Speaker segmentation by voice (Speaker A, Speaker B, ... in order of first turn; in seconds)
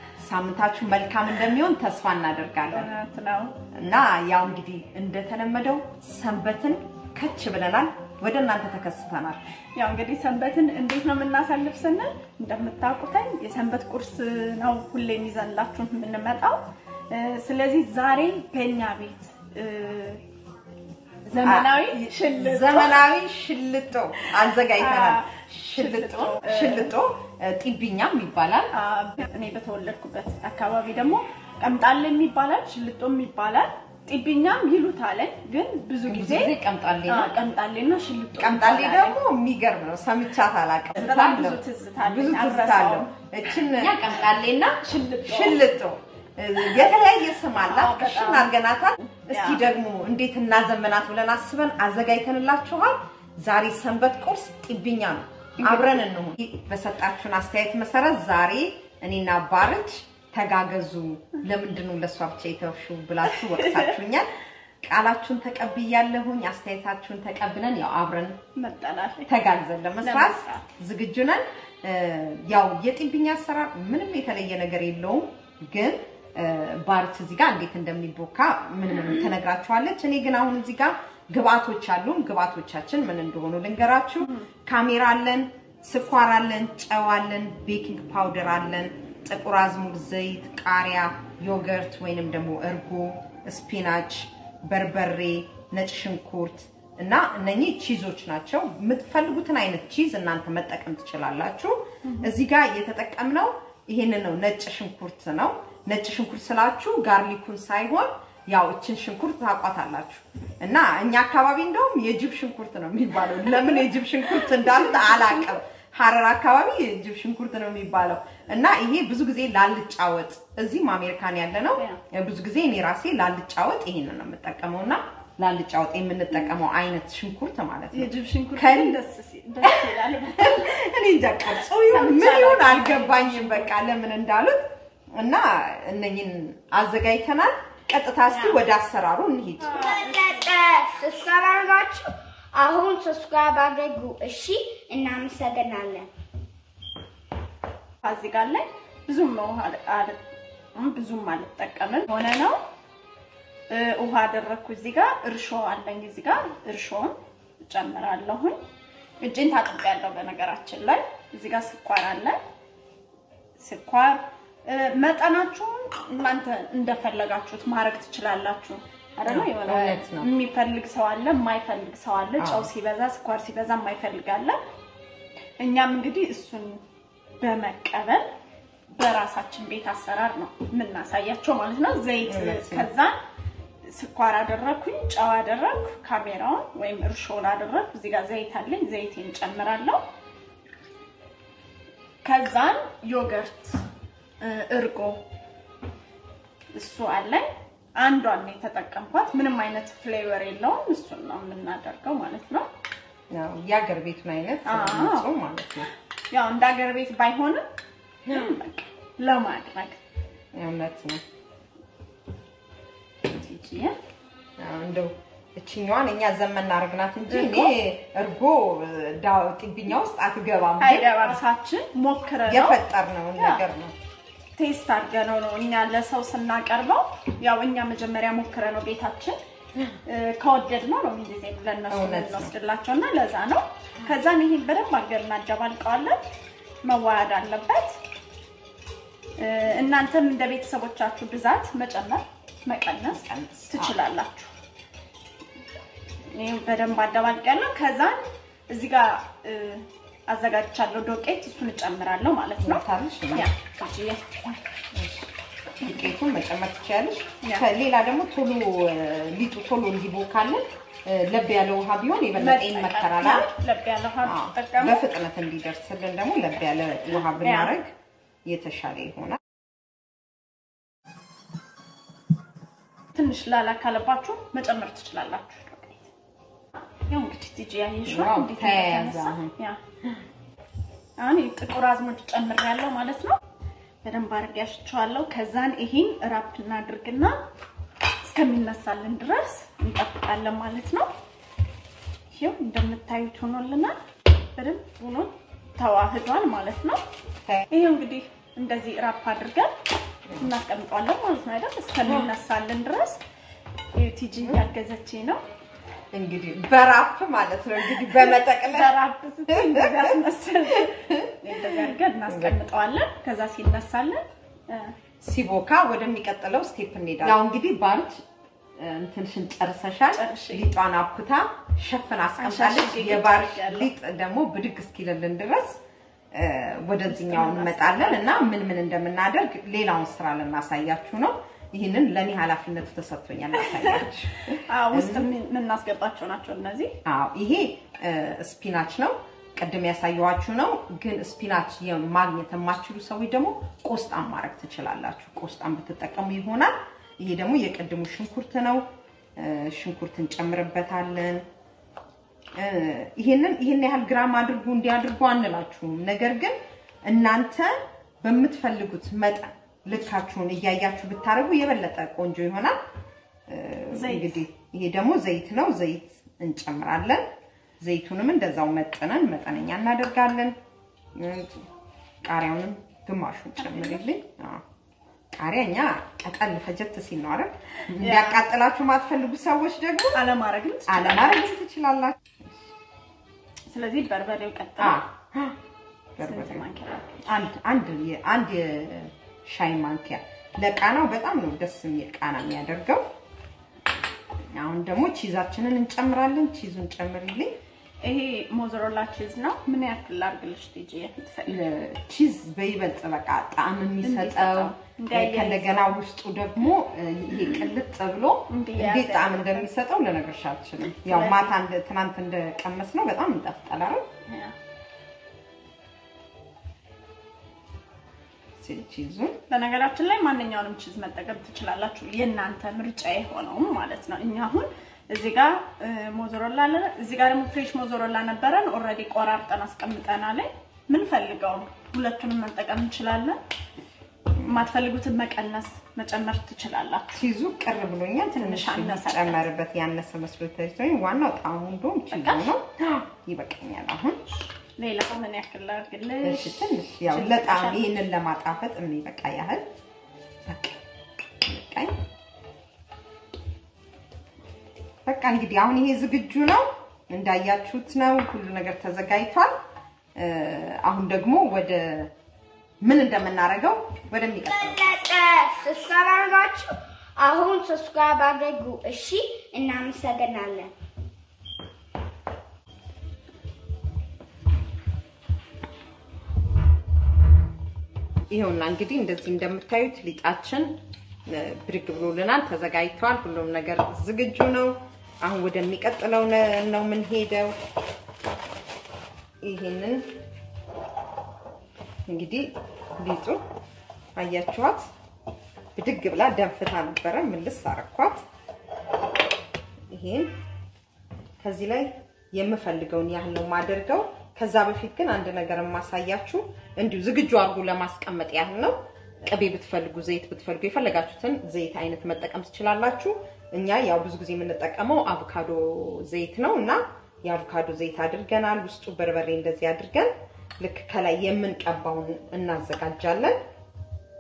Speaker A: 0.2-2.9, 3.7-9.5, 21.4-28.7, 36.1-37.3, 38.3-44.6, 45.2-64.3, 64.8-68.4, 69.3-129.0, 129.6-134.6, 135.2-139.8, 169.3-170.3, 172.4-172.7, 182.2-182.9, 203.3-205.9, 208.3-208.6, 210.5-211.2, 214.6-221.4, 222.5-223.9, 231.9-232.5, 243.1-244.0, 252.6-253.5, 254.9-263.5, 264.2-267.9, 268.4-269.4, 278.1-279.5, 306.1-309.0, 309.5-310.2, 310.8-311.5, 312.3-312.6, 315.2-318.2, 318.8-325.8, 326.3-335.3, 337.1-348.8, 349.4-351.4, 352.6-362.8, 363.5-367.2, 367.8-370.6, 371.1-371.7, 372.2-374.6, 375.4-380.3, 380.9-382.4, 384.8-385.6, 386.2-386.6, 387.3-393.0, 394.5-397.6, 401.5-414.0, 418.6-419.4, 434.4-434.6, 437.1-444.2, 446.2-449.6, 450.5-450.8, 451.4-451.9, 455.1-459.5, 460.2-462.1, 462.8-465.0, 478.3-487.6, 489.4-490.1, 492.1-493.4, 494.2-494.9, 495.8-498.2, 499.9-500.3, 501.4-508.8, 509.3-523.4
Speaker B: 2.7-3.5, 9.8-20.2, 21.3-23.1, 24.2-26.9, 28.7-36.5, 37.1-39.2, 40.9-43.1, 43.8-45.7, 46.6-46.9, 47.5-49.6, 55.6-56.0, 68.6-69.3, 70.0-70.6, 102.0-102.3, 114.4-115.6, 127.9-130.9, 131.5-133.8, 138.3-138.6, 139.6-140.5, 148.0-150.2, 150.8-152.6, 153.7-158.6, 159.2-162.4, 163.6-174.6, 175.6-176.8, 177.4-178.3, 178.9-183.2, 183.8-190.0, 192.2-193.8, 194.4-195.2, 196.7-202.7, 204.7-205.3, 206.3-207.6, 208.3-210.0, 213.3-214.0, 217.3-217.8, 220.8-222.8, 223.4-223.6, 224.6-229.4, 230.1-236.2, 236.8-238.0, 239.4-244.5, 246.3-254.4, 257.4-257.7, 262.4-265.0, 267.3-267.8, 273.1-276.1, 277.0-279.8, 281.2-283.4, 284.0-287.4, 288.2-291.1, 292.3-294.0, 294.6-297.0, 297.7-299.7, 300.4-303.2, 303.9-305.4, 307.9-314.9, 320.1-320.7, 322.4-323.9, 327.1-328.5, 333.6-334.1, 334.7-336.9, 363.9-364.4, 373.6-374.1, 377.9-378.4, 380.1-381.5, 383.7-385.0, 386.2-387.2, 398.0-401.6, 404.0-405.9, 408.5-409.7, 411.0-411.5, 414.3-414.5, 419.5-433.4, 434.4-437.2, 438.3-439.5, 442.1-442.5, 444.8-447.9
Speaker C: 139.8-146.1, 464.7-470.7